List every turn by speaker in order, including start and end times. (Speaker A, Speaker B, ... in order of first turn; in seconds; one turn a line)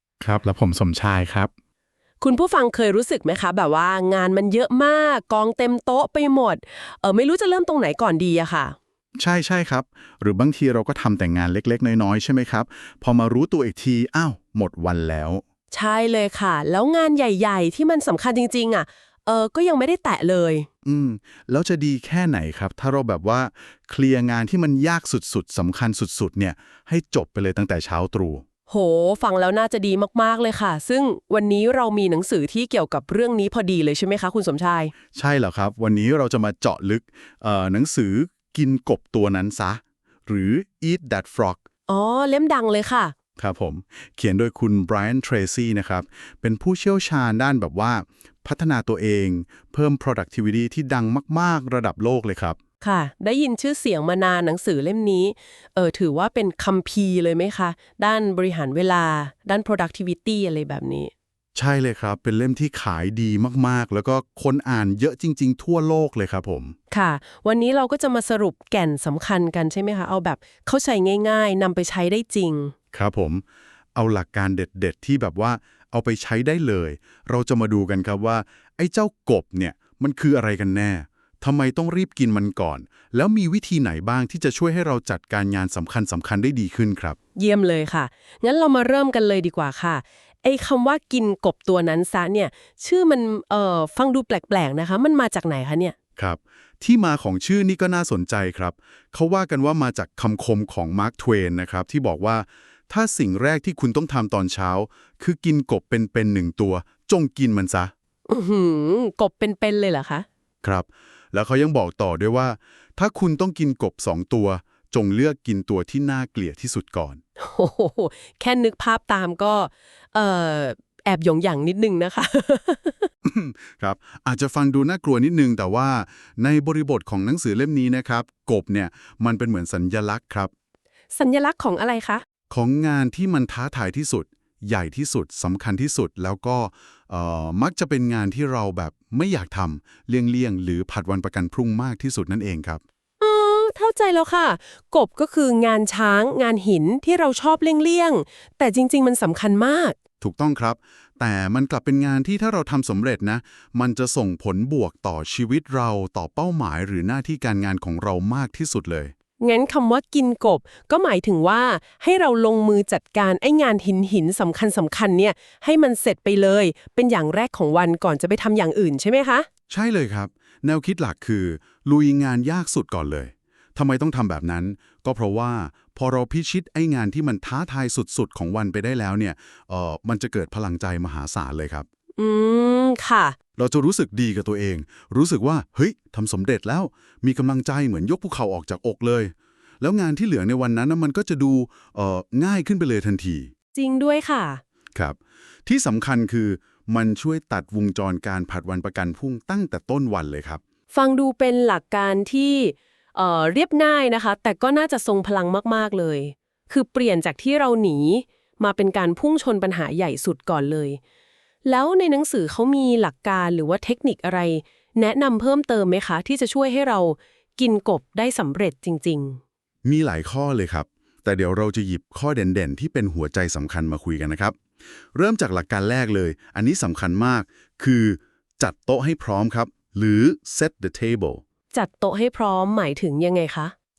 Speaker A: 0.2-1.5
Speaker B: 2.2-8.8
Speaker A: 9.2-15.4
Speaker B: 15.7-20.7
Speaker A: 20.8-28.4
Speaker B: 28.7-34.9
Speaker A: 35.1-41.6
Speaker B: 41.9-43.1
Speaker A: 43.4-52.6
Speaker B: 52.8-61.1
Speaker A: 61.5-66.7
Speaker B: 66.9-72.7
Speaker A: 72.9-73.4
Speaker A: 73.9-87.2
Speaker B: 87.3-95.9
Speaker A: 96.2-107.9
Speaker B: 108.3-110.2
Speaker A: 110.6-117.2
Speaker B: 117.4-123.1
Speaker A: 123.2-130.5
Speaker B: 131.1-132.2
Speaker A: 132.5-142.8
Speaker B: 143.2-149.9
Speaker A: 150.2-159.1
Speaker B: 159.4-169.5
Speaker A: 169.7-181.8
Speaker B: 182.2-183.3
Speaker A: 183.6-193.5
Speaker B: 193.7-194.6
Speaker A: 194.9-200.6
Speaker B: 200.9-211.0
Speaker B: 211.6-219.4
Speaker A: 219.8-224.6
Speaker A: 225.1-231.4
Speaker B: 231.7-233.7